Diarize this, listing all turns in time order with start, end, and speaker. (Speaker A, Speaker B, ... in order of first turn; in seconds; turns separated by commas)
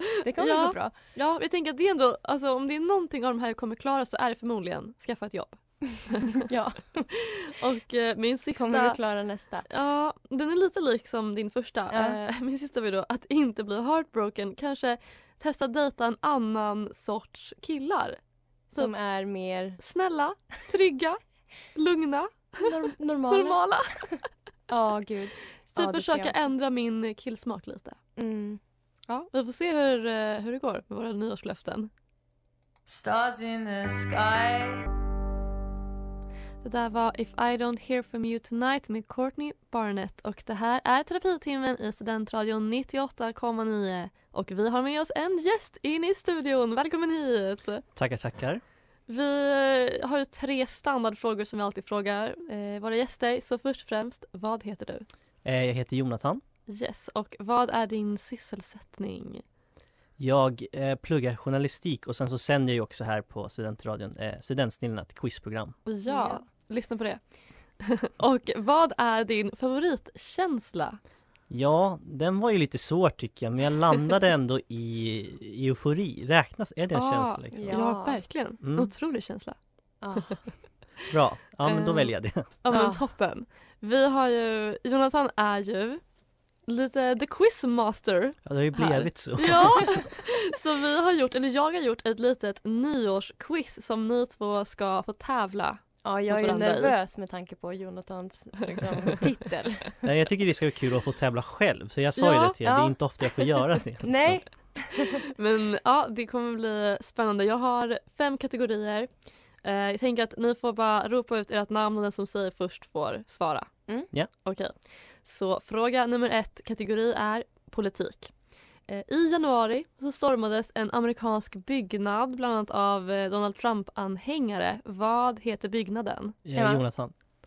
Speaker A: 0.2-0.9, Speaker B: 0.4-6.5, Speaker A: 6.4-7.1, Speaker B: 7.1-9.0, Speaker A: 8.6-9.7, Speaker B: 9.7-18.2, Speaker A: 11.9-12.2, Speaker A: 18.7-19.8, Speaker B: 19.8-21.2, Speaker B: 21.8-22.7, Speaker A: 22.6-23.6, Speaker B: 23.3-24.1, Speaker A: 24.7-26.5, Speaker B: 25.8-28.0, Speaker A: 28.2-28.6, Speaker B: 29.1-31.9, Speaker B: 36.6-47.8, Speaker C: 48.0-48.6, Speaker B: 49.1-55.1, Speaker C: 55.4-56.4, Speaker B: 56.7-59.4, Speaker C: 60.2-65.8, Speaker B: 65.9-67.2, Speaker A: 66.1-66.4, Speaker B: 67.8-71.0, Speaker C: 71.5-77.8, Speaker B: 76.9-79.6, Speaker A: 77.5-78.2, Speaker C: 78.6-78.9, Speaker A: 80.0-80.5, Speaker C: 81.1-82.5, Speaker B: 81.7-86.0, Speaker A: 82.7-83.0, Speaker B: 86.7-96.9, Speaker C: 88.5-90.0, Speaker A: 96.0-100.0, Speaker C: 100.0-104.4, Speaker B: 102.2-102.6, Speaker A: 102.6-103.0, Speaker A: 104.0-105.2, Speaker B: 105.4-109.1, Speaker B: 109.6-113.7, Speaker B: 114.4-118.3, Speaker B: 118.9-126.4, Speaker C: 126.5-127.1, Speaker A: 126.5-126.8